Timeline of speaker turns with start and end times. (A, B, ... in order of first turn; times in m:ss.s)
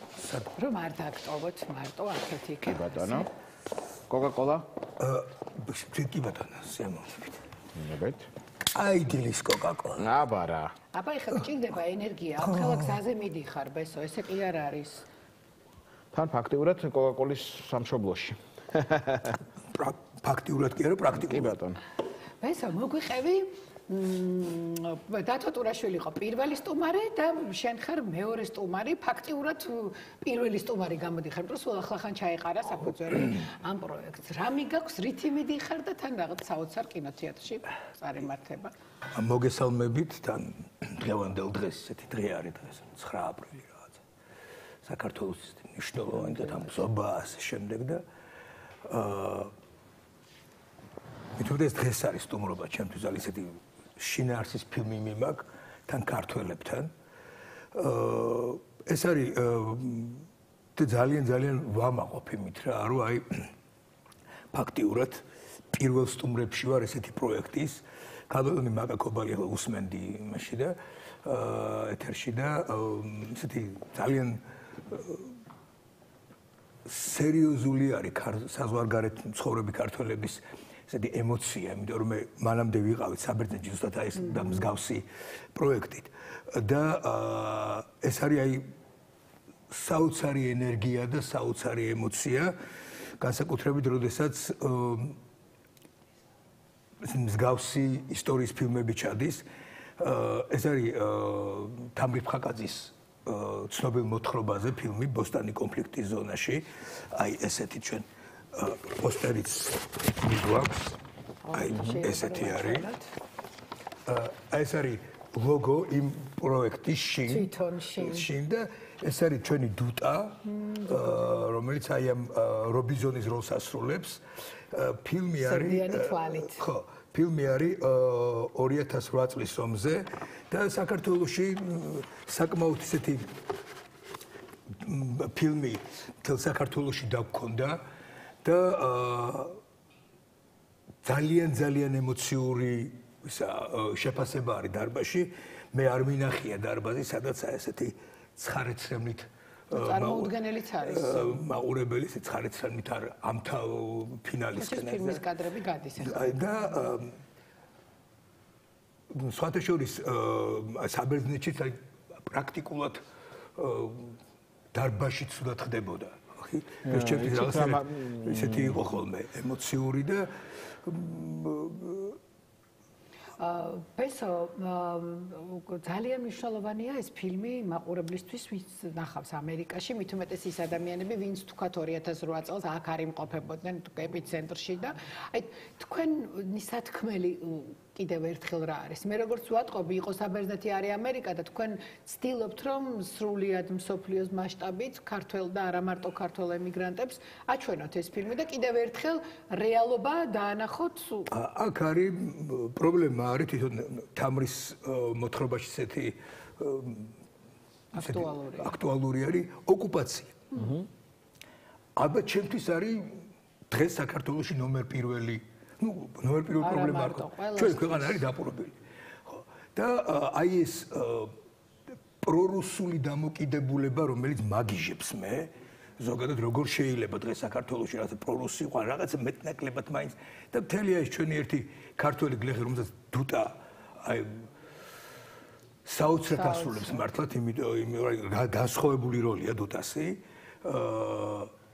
0:00.2-0:00.5 A
0:00.5-0:03.3 B
0:02.6-0:03.3 C
0:04.1-0:04.6 C
0:05.0-0:07.4 A
0:07.7-0:08.2 C
0:08.7-0:10.1 A
0:10.0-0:10.7 C
0:10.9-0:15.1 B
0:12.4-0:13.0 A
0:16.1-0:19.4 C
0:19.7-0:21.6 A
0:21.1-0:21.8 C
0:22.4-0:38.7 B
0:39.1-0:44.0 A
0:44.8-0:48.0 A
0:48.8-0:49.5 A
0:51.4-0:56.9 A
0:57.7-1:03.2 A
1:04.5-1:05.2 A
1:05.7-1:15.3 A
1:16.8-1:28.6 A
1:29.7-1:32.5 A
1:33.2-1:35.2 A
1:37.0-1:39.4 A
1:40.0-1:51.0 A
1:51.5-1:53.0 B
1:51.5-1:52.9 A
1:54.1-2:13.3 A
1:57.3-1:58.3 B
2:00.5-2:01.3 B
2:05.4-2:06.6 B
2:14.8-2:17.8 A
2:18.4-2:19.6 A
2:21.0-2:35.2 A
2:29.7-2:31.4 B
2:34.6-2:36.5 B
2:36.0-2:37.1 A
2:39.1-2:43.0 A
2:43.6-2:44.2 A
2:44.7-2:50.3 A
2:46.8-2:48.8 C
2:50.8-2:52.2 A
2:53.4-3:21.3 B
3:21.3-3:27.1 A
3:27.9-3:28.8 B
3:28.0-3:30.4 A
3:30.5-3:30.8 C
3:32.0-3:38.7 A
3:36.6-3:38.2 B
3:39.3-3:41.3 A
3:42.2-3:54.3 A
3:55.8-4:01.5 A
3:56.3-3:57.0 B